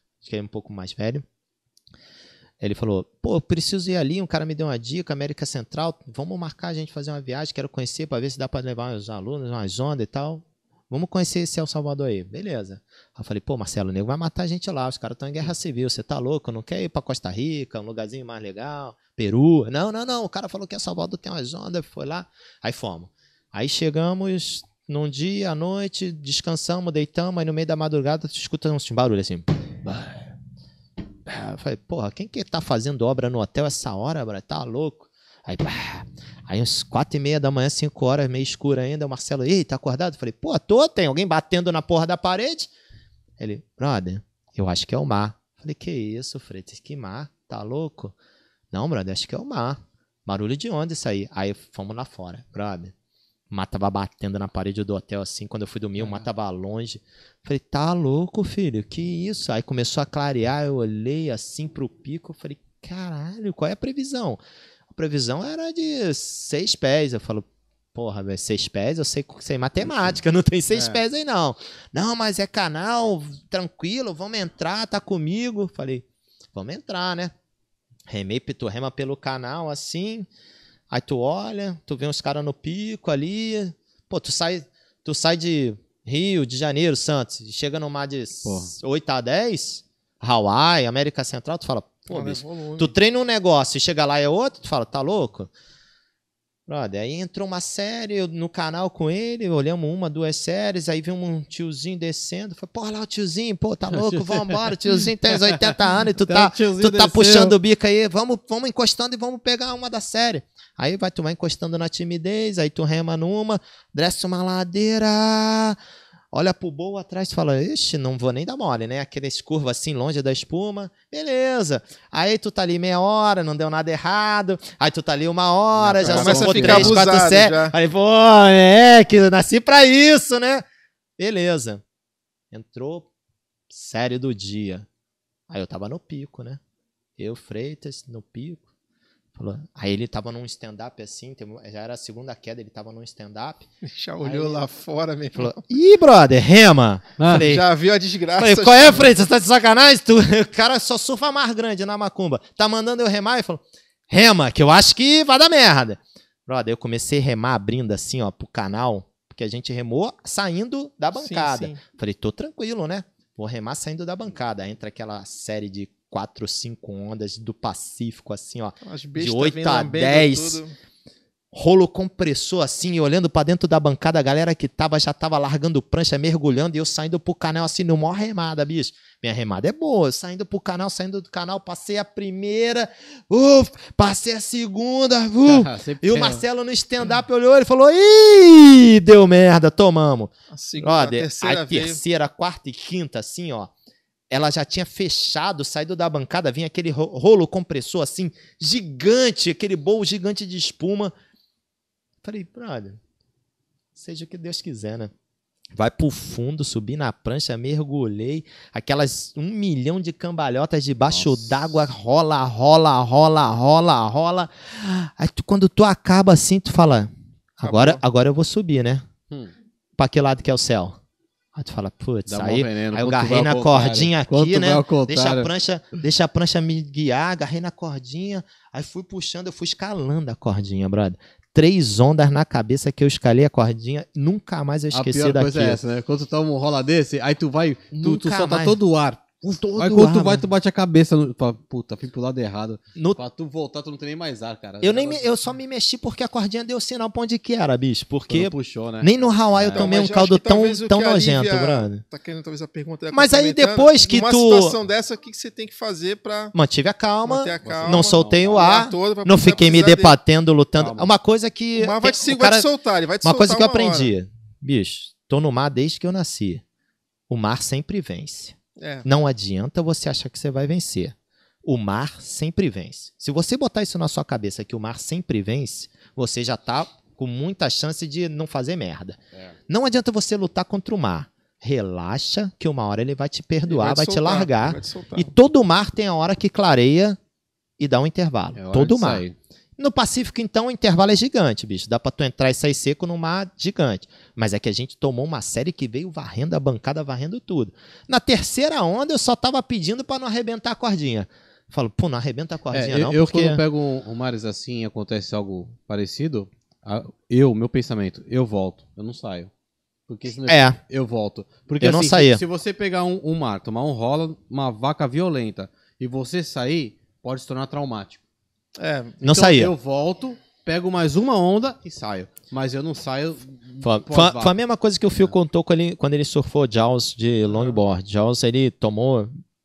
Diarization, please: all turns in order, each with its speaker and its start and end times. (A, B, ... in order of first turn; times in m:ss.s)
0:00.2-0:01.2 A
0:02.6-0:30.3 A
0:31.3-0:42.7 A
0:43.4-0:48.2 A
0:48.7-0:52.9 A
0:53.5-1:04.4 A
0:56.0-0:56.3 B
1:04.9-1:17.3 A
1:10.7-1:11.0 B
1:18.1-1:20.3 A
1:20.9-1:35.5 A
1:28.4-1:28.7 B
1:32.1-1:33.0 C
1:36.7-1:55.8 A
1:44.0-1:45.0 B
1:45.5-1:47.6 B
1:56.3-2:10.6 A
2:05.7-2:07.0 B
2:06.0-2:07.8 C
2:11.2-2:11.8 A
2:12.5-2:13.1 A
2:13.7-2:14.9 A
2:15.5-2:16.6 A
2:17.2-2:18.7 A
2:19.4-2:23.7 A
2:23.8-2:25.6 C
2:24.2-2:24.6 B
2:25.4-2:27.6 A
2:27.2-2:27.5 B
2:27.3-2:29.1 C
2:28.4-2:50.6 A
2:41.2-2:41.8 C
2:48.8-2:50.7 C
2:51.5-3:13.7 A
3:05.4-3:06.4 B
3:10.5-3:12.0 C
3:14.3-3:21.1 A
3:22.2-3:23.0 A
3:24.0-3:25.1 A
3:25.8-3:39.0 A
3:31.1-3:31.6 B
3:37.6-3:38.0 C
3:40.0-3:41.0 A
3:41.6-3:55.8 A
3:42.3-3:45.5 B
3:54.9-4:05.4 B
3:57.9-3:58.8 A
3:59.4-4:00.5 A
4:03.0-4:03.2 A
4:04.8-4:12.0 A
4:08.3-4:09.9 B
4:09.7-4:16.5 C
4:13.1-4:14.8 A
4:16.5-4:22.7 A
4:17.2-4:20.2 C
4:17.6-4:18.7 B
4:20.8-4:21.1 B
4:21.8-4:24.1 C
4:23.2-4:26.6 A
4:27.3-4:47.2 A
4:28.8-4:29.1 C
4:43.7-4:45.3 C
4:47.8-4:49.3 A
4:48.6-4:49.4 B
4:49.8-5:03.6 A
5:02.7-5:09.5 B
5:10.1-5:18.2 B
5:10.5-5:10.8 A
5:11.8-5:12.4 A
5:18.8-5:19.5 C
5:19.2-5:19.7 A
5:19.2-5:24.6 B
5:23.8-5:29.3 A